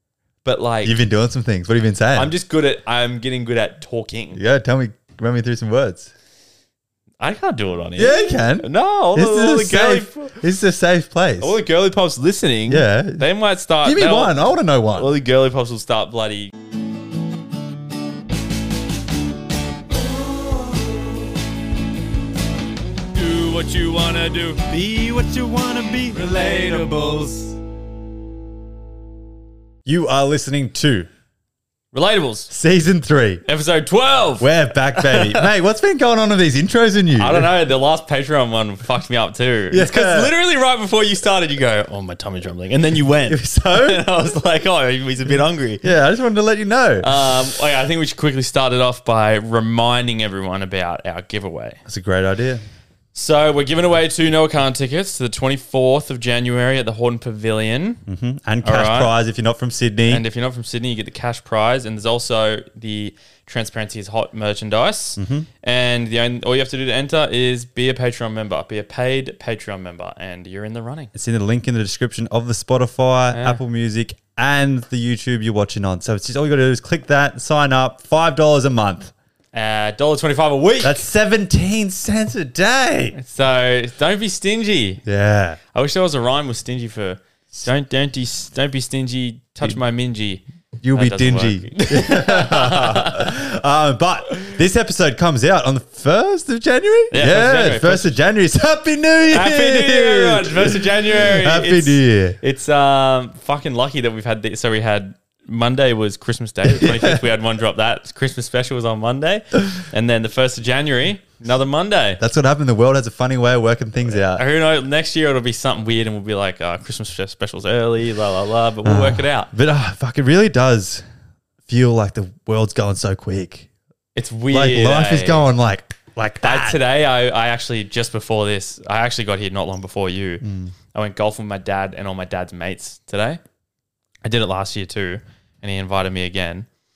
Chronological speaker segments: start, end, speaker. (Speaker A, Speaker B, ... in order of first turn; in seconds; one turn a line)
Speaker A: 0.4-1.0
Speaker B: 0.8-2.3
Speaker A: 2.1-4.4
Speaker B: 4.3-6.1
Speaker A: 7.2-10.3
Speaker B: 8.0-11.6
Speaker A: 11.4-14.3
Speaker B: 12.7-13.3
Speaker B: 13.8-15.1
Speaker A: 14.9-16.5
Speaker A: 23.1-24.6
Speaker C: 24.7-27.6
Speaker B: 29.9-31.1
Speaker A: 31.9-32.5
Speaker B: 32.5-33.4
Speaker A: 33.5-35.5
Speaker B: 34.4-37.5
Speaker A: 37.2-45.9
Speaker B: 39.7-40.4
Speaker B: 43.3-44.0
Speaker B: 45.8-47.3
Speaker A: 47.0-51.8
Speaker B: 51.9-52.6
Speaker A: 53.1-58.0
Speaker B: 58.1-60.2
Speaker A: 58.6-59.1
Speaker A: 60.1-71.1
Speaker B: 65.2-65.5
Speaker B: 71.2-79.1
Speaker A: 73.3-73.6
Speaker A: 79.5-81.0
Speaker B: 80.8-83.2
Speaker A: 83.2-85.0
Speaker B: 85.0-85.6
Speaker A: 85.7-93.4
Speaker B: 90.8-102.4
Speaker A: 97.1-98.2
Speaker A: 99.3-112.2
Speaker B: 106.8-107.2
Speaker B: 112.2-114.4
Speaker A: 114.1-119.5
Speaker B: 118.8-121.0
Speaker B: 121.7-123.7
Speaker A: 124.2-125.5
Speaker B: 124.5-126.8
Speaker A: 126.4-133.4
Speaker B: 130.4-130.7
Speaker A: 134.2-136.7